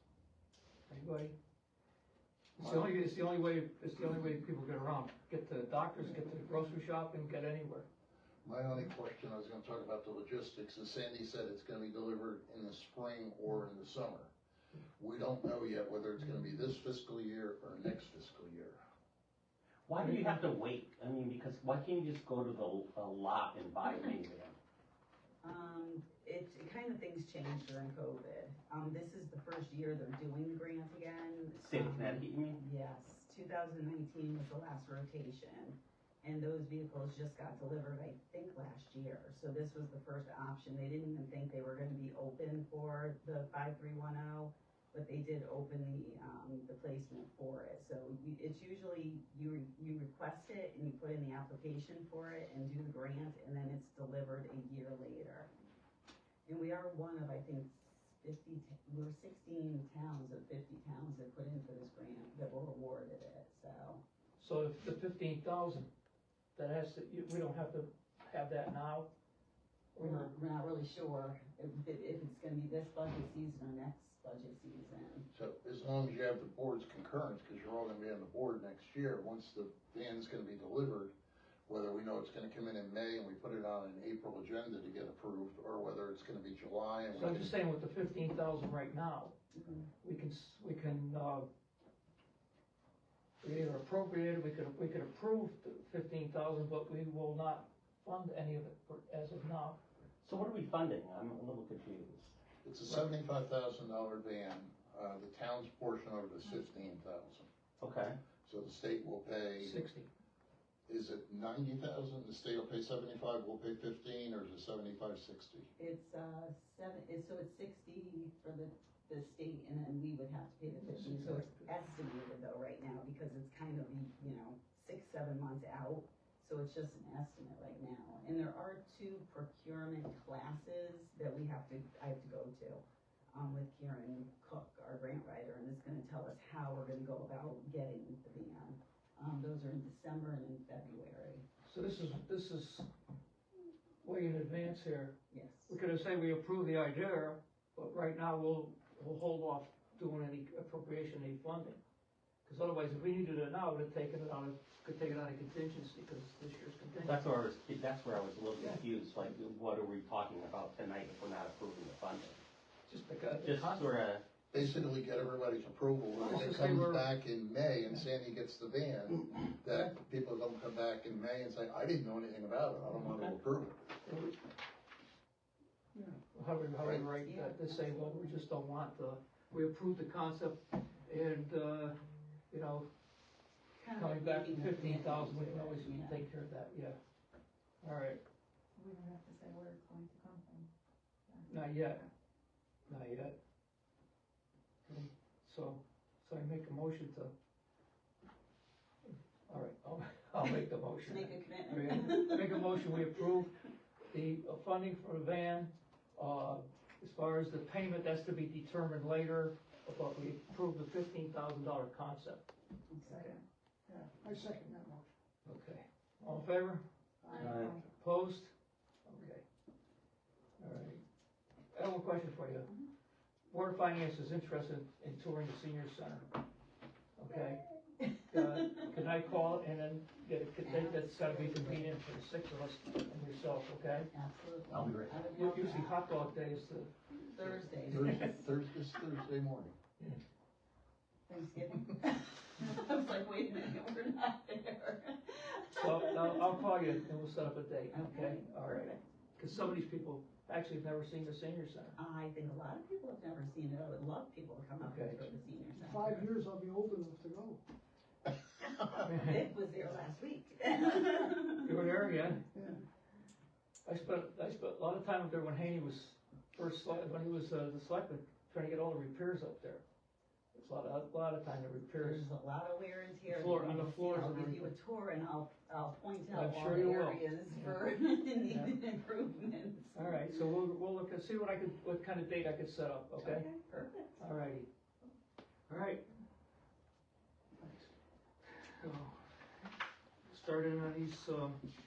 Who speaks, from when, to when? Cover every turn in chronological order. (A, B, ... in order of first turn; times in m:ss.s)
0:00.9-0:01.4 A
0:02.6-0:07.9 A
0:02.6-0:02.9 B
0:08.4-0:14.3 B
0:15.0-0:18.8 B
0:19.9-0:24.6 C
0:25.4-0:55.5 D
0:31.6-0:32.6 C
0:56.5-1:04.0 D
1:04.4-1:05.9 A
1:06.6-1:09.1 A
1:10.0-1:10.3 A
1:10.0-1:15.3 D
1:15.3-1:21.1 B
1:21.7-1:27.5 B
1:27.1-1:29.4 A
1:29.5-1:29.9 D
1:30.0-1:31.5 A
1:33.4-1:39.8 A
1:40.2-1:42.4 C
1:42.6-1:47.5 B
1:47.8-1:48.2 C
1:48.4-1:49.8 B
1:49.6-1:50.1 A
1:50.9-1:55.7 B
1:55.8-2:21.4 D
2:00.8-2:01.7 A
2:21.6-2:22.9 A
2:24.0-2:25.2 A
2:25.3-2:25.8 D
2:25.7-2:31.8 A
2:32.4-2:37.2 A
2:37.0-2:42.4 C
2:42.9-2:43.9 A
2:43.4-2:44.2 C
2:44.5-2:53.8 B
2:44.6-2:44.9 A
2:46.2-2:47.1 A
2:53.1-2:53.4 C
2:54.0-2:54.4 A
2:56.3-3:02.0 A
2:57.2-2:58.4 D
3:02.5-3:02.9 A
3:03.8-3:06.2 D
3:03.9-3:07.0 A
3:07.8-3:08.2 A
3:08.8-3:10.7 E
3:11.3-3:12.1 E
3:11.5-3:12.0 A
3:12.9-3:13.4 A
3:14.8-3:17.3 A
3:19.5-3:23.6 A
3:20.4-3:23.2 D
3:24.1-3:32.4 A
3:32.9-3:33.4 D
3:33.1-3:33.4 E
3:33.9-3:35.1 F
3:35.4-3:36.8 A
3:37.2-3:37.6 F
3:37.3-3:37.8 E
3:37.3-3:37.8 C
3:37.9-3:38.5 A
3:39.0-3:39.4 A
3:40.6-3:41.0 A
3:41.7-3:42.7 A
3:43.5-3:46.3 A
3:47.2-3:47.7 A
3:48.0-3:48.4 D
3:48.2-3:54.1 A
3:50.6-3:51.9 D
3:54.1-3:56.0 D
3:54.7-3:55.3 C
3:55.3-3:56.9 A
3:57.2-3:58.4 D
3:57.8-3:59.8 B
4:01.3-4:06.8 D
4:05.7-4:12.0 A
4:07.9-4:09.0 D
4:12.0-4:16.2 D
4:14.8-4:15.3 A
4:15.8-4:17.6 F
4:19.0-4:19.4 A
4:19.1-4:21.7 D
4:21.5-4:22.5 A
4:22.5-4:22.8 F
4:23.8-4:29.8 A
4:30.5-4:32.3 A
4:32.0-4:40.4 D
4:33.3-4:34.7 A
4:36.3-4:37.8 A
4:38.4-4:38.8 A
4:39.9-4:43.5 A
4:43.2-4:44.2 D
4:44.2-4:44.7 A
4:45.7-4:46.0 A
4:47.6-4:47.9 A
4:48.5-4:49.2 A
4:50.3-4:51.6 A